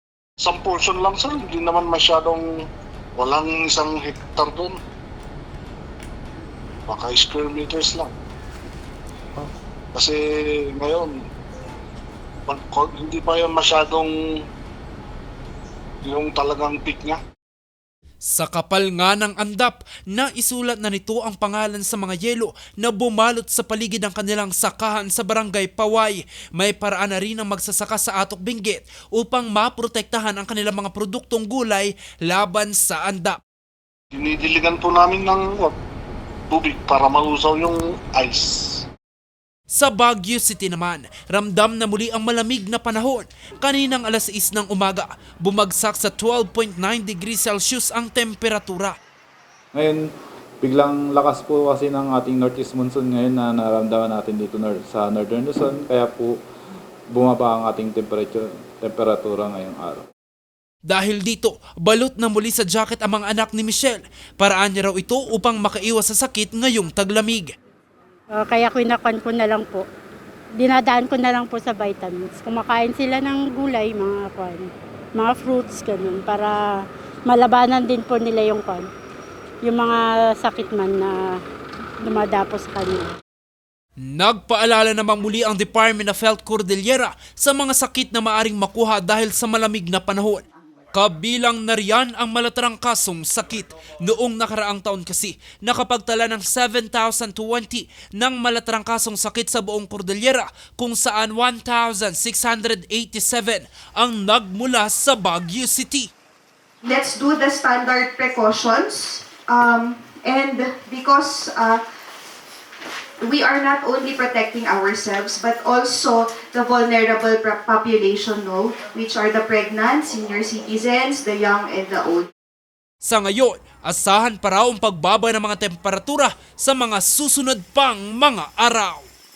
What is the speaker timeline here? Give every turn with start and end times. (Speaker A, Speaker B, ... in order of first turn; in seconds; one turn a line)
Speaker A: 0.4-2.5
Speaker A: 3.2-4.8
Speaker A: 6.9-8.1
Speaker A: 9.9-11.2
Speaker A: 12.5-14.1
Speaker A: 16.0-17.2
Speaker B: 18.2-33.4
Speaker A: 34.1-35.8
Speaker A: 36.5-38.8
Speaker B: 39.7-49.0
Speaker C: 49.7-50.0
Speaker C: 50.6-56.4
Speaker C: 57.1-60.0
Speaker B: 60.9-67.5
Speaker D: 68.3-69.8
Speaker D: 70.6-76.5
Speaker D: 77.3-78.9
Speaker D: 79.6-81.2
Speaker D: 82.0-83.1
Speaker B: 84.0-106.1
Speaker E: 106.8-111.8
Speaker E: 113.2-122.3
Speaker B: 123.0-129.1